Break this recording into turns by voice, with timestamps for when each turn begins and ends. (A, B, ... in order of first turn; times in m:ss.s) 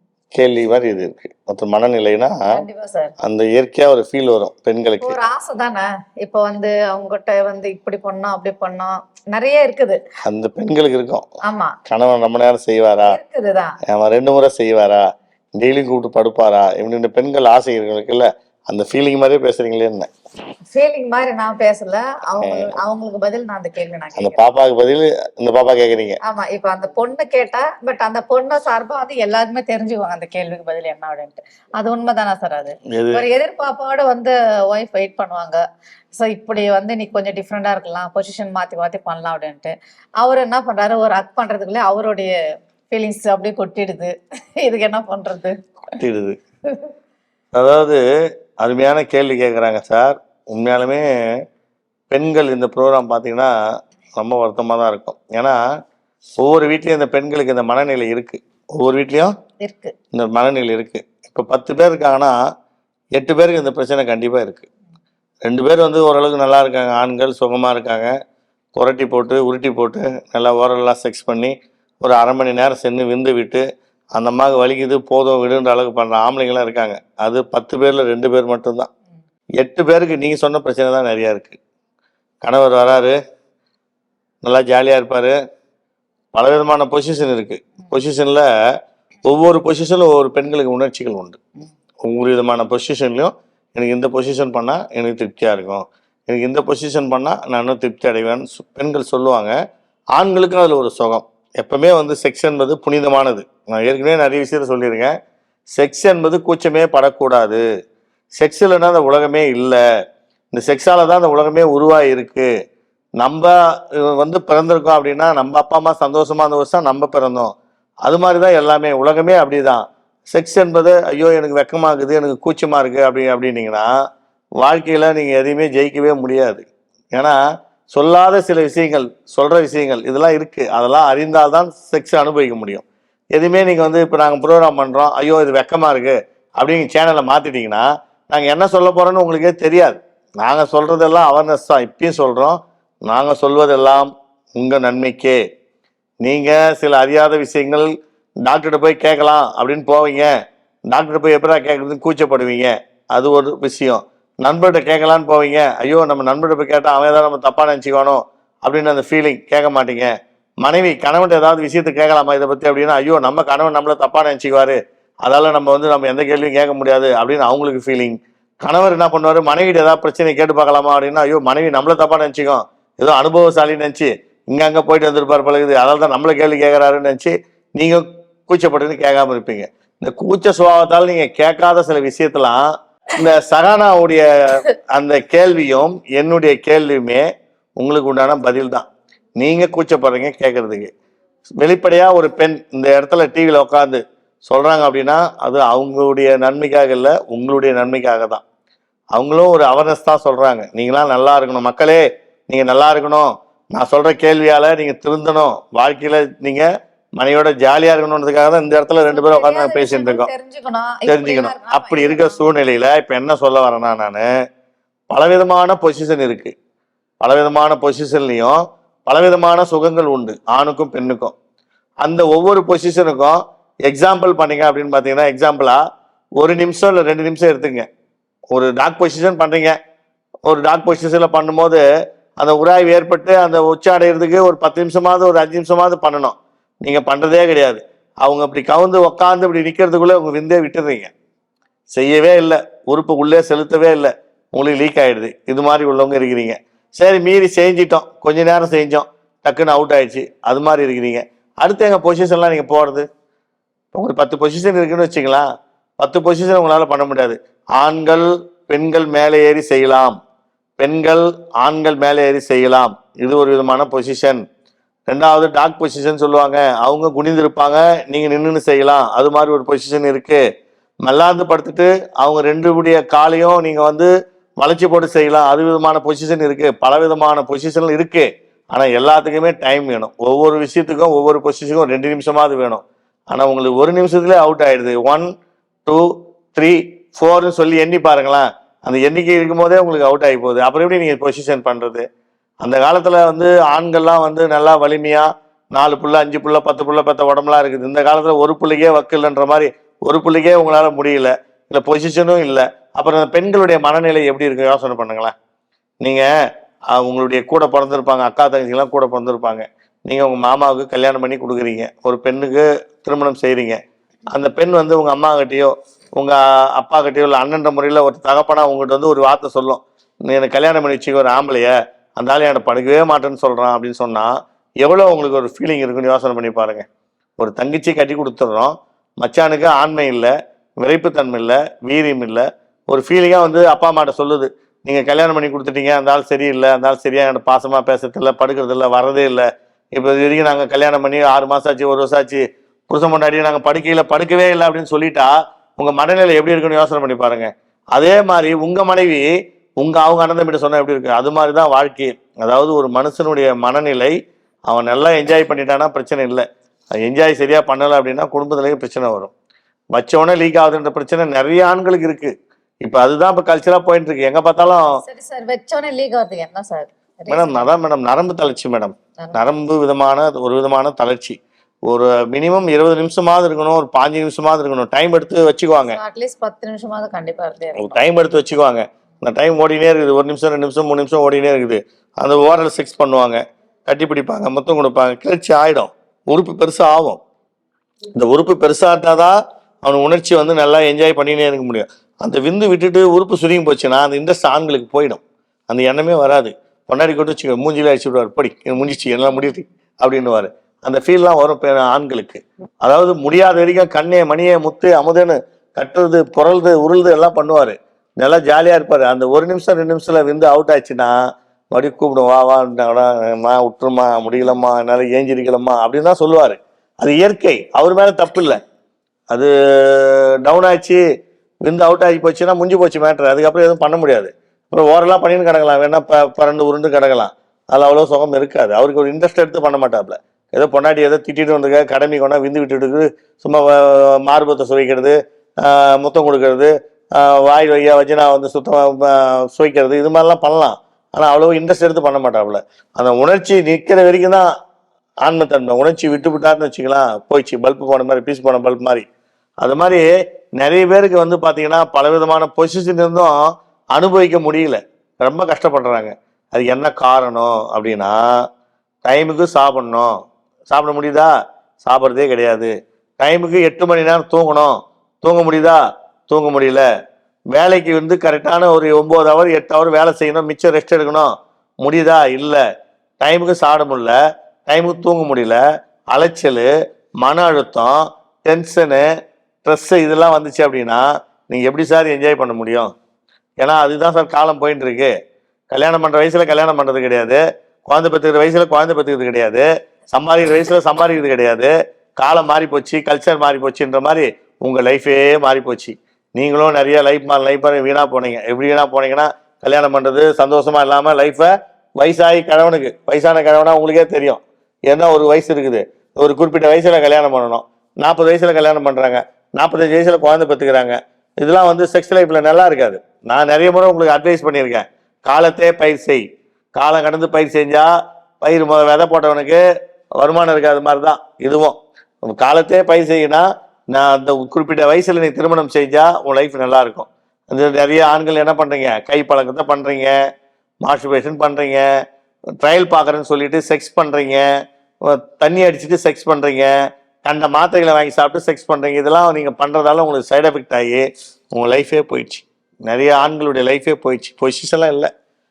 0:00.3-0:02.4 A
0:02.5-0:03.1 B
0:03.2-0:05.2 A
0:05.0-0:10.0 B
0:10.2-0:11.2 A
0:11.4-0:11.7 B
0:11.9-0:13.2 A
0:13.1-0:13.8 B
0:13.9-0:15.0 A
0:15.6-0:20.1 A
0:20.7-0:24.4 B
0:22.4-0:22.7 A
0:24.2-0:26.2 A
0:26.2-0:35.6 B
0:32.9-0:33.2 A
0:36.1-0:42.4 B
0:42.9-0:45.6 B
0:46.0-0:46.4 A
0:47.5-0:48.0 A
0:48.6-0:51.0 A
0:52.1-0:53.5 A
0:54.2-0:55.6 A
0:56.4-0:59.3 A
0:59.6-0:59.9 B
1:00.1-1:02.3 A
1:03.1-1:04.7 A
1:05.4-1:08.1 A
1:08.7-1:13.6 A
1:14.2-1:18.9 A
1:19.6-1:21.6 A
1:22.4-1:23.2 A
1:24.4-1:25.4 A
1:26.3-1:28.5 A
1:29.2-1:31.4 A
1:32.0-1:39.5 A
1:40.2-1:45.1 A
1:45.8-1:47.6 A
1:48.4-1:49.8 A
1:50.5-1:52.5 A
1:53.2-1:57.5 A
1:58.0-2:03.9 A
2:04.6-2:07.4 A
2:07.9-2:25.4 A
2:26.2-2:27.9 A
2:28.4-2:30.3 A
2:30.9-2:40.1 A
2:40.6-3:02.6 A
3:03.1-3:07.2 A
3:07.8-3:08.8 A
3:09.4-3:10.9 A
3:11.6-3:18.4 A
3:19.1-3:30.3 A
3:29.1-3:32.5 B
3:31.1-3:34.3 A
3:35.1-3:36.5 A
3:37.2-3:41.3 A
3:42.0-3:45.8 A
3:46.4-3:47.9 A
3:48.5-3:49.8 A
3:50.4-3:51.8 A
3:52.4-4:01.1 A
4:01.9-4:13.0 A
4:13.9-4:15.4 A
4:16.0-4:20.1 A
4:20.8-4:24.4 A
4:25.1-4:30.4 A
4:31.0-4:34.1 A
4:34.6-4:45.2 A
4:45.8-4:52.0 A
4:52.6-5:05.3 A
5:06.0-5:06.3 A
5:06.9-5:13.8 A
5:14.3-5:24.3 A
5:24.8-5:26.8 A
5:27.4-5:54.1 A
5:54.7-5:56.4 A
5:57.0-5:59.3 A
5:59.9-6:04.8 A
6:05.0-6:07.8 B
6:07.3-6:11.4 A
6:09.2-6:09.4 B
6:11.9-6:16.0 A
6:15.8-6:18.0 B
6:17.8-6:27.2 A
6:28.1-6:51.1 A
6:51.7-6:58.6 A
6:59.3-7:01.0 A
7:01.6-7:24.5 A
7:25.2-7:29.0 A
7:29.6-7:33.4 A
7:33.9-7:38.2 A
7:39.0-7:40.1 A
7:40.7-7:41.3 A
7:41.8-7:46.8 A
7:47.5-7:51.3 A
7:51.8-7:52.6 A
7:53.2-7:54.2 A
7:54.7-7:55.6 A
7:56.1-7:56.7 A
7:57.2-7:59.0 A
7:59.6-8:02.9 A
8:03.6-8:05.1 A
8:05.7-8:36.2 A
8:36.7-8:37.9 A
8:38.4-8:39.6 A
8:40.2-8:50.1 A
8:50.8-8:51.8 A
8:52.6-8:54.4 A
8:55.0-8:56.7 A
8:57.2-9:05.1 A